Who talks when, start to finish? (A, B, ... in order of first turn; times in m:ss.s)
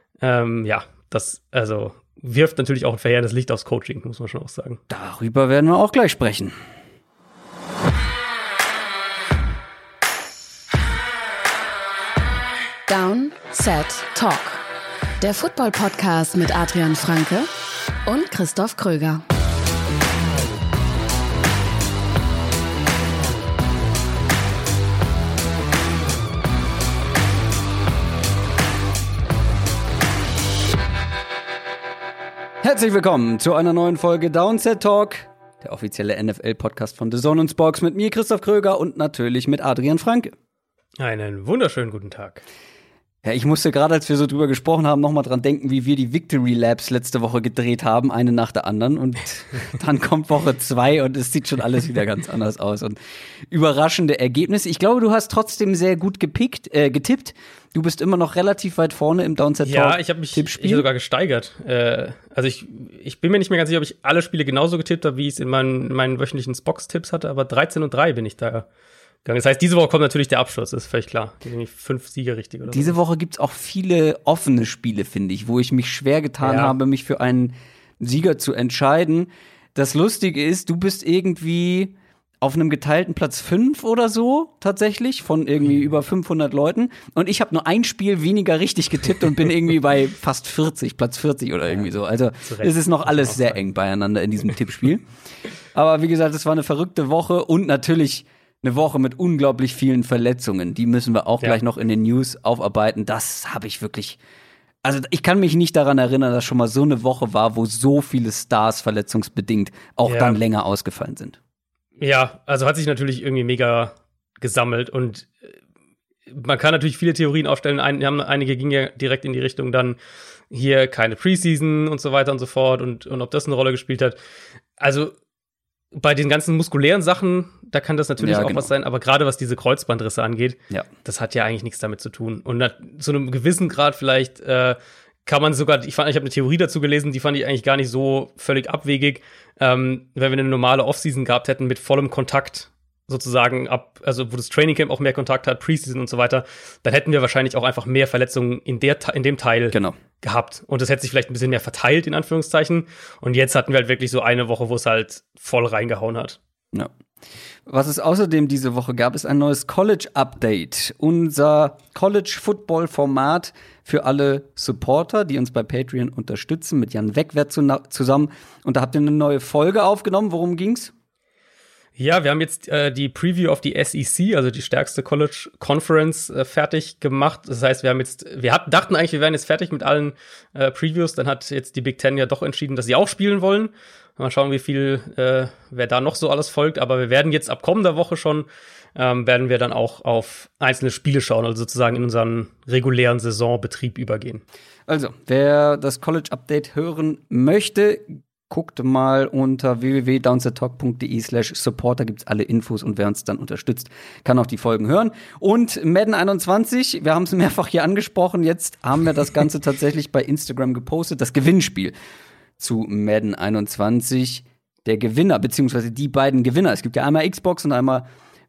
0:00.2-0:04.8 A
0:04.9-0:06.6 B
0:12.9-0:14.6 C
0:15.2-0:17.5 C
0:18.0-0:19.2 C
0:32.6-0:40.3 B
0:41.0-0:42.4 A
0:43.2-0:53.0 B
0:53.5-1:00.8 B
0:59.6-1:08.6 A
1:09.2-1:13.0 A
1:12.7-1:35.0 B
1:16.4-1:16.7 A
1:32.4-1:33.5 A
1:35.7-1:44.2 B
1:44.8-1:51.4 B
1:50.0-1:50.4 A
1:52.0-1:55.5 A
1:56.3-2:00.0 A
2:00.5-2:04.2 A
2:04.8-2:05.1 A
2:05.9-2:36.4 A
2:08.2-2:08.7 B
2:37.7-2:50.9 B
2:52.0-3:14.4 A
3:14.9-3:31.9 B
3:32.6-3:38.0 B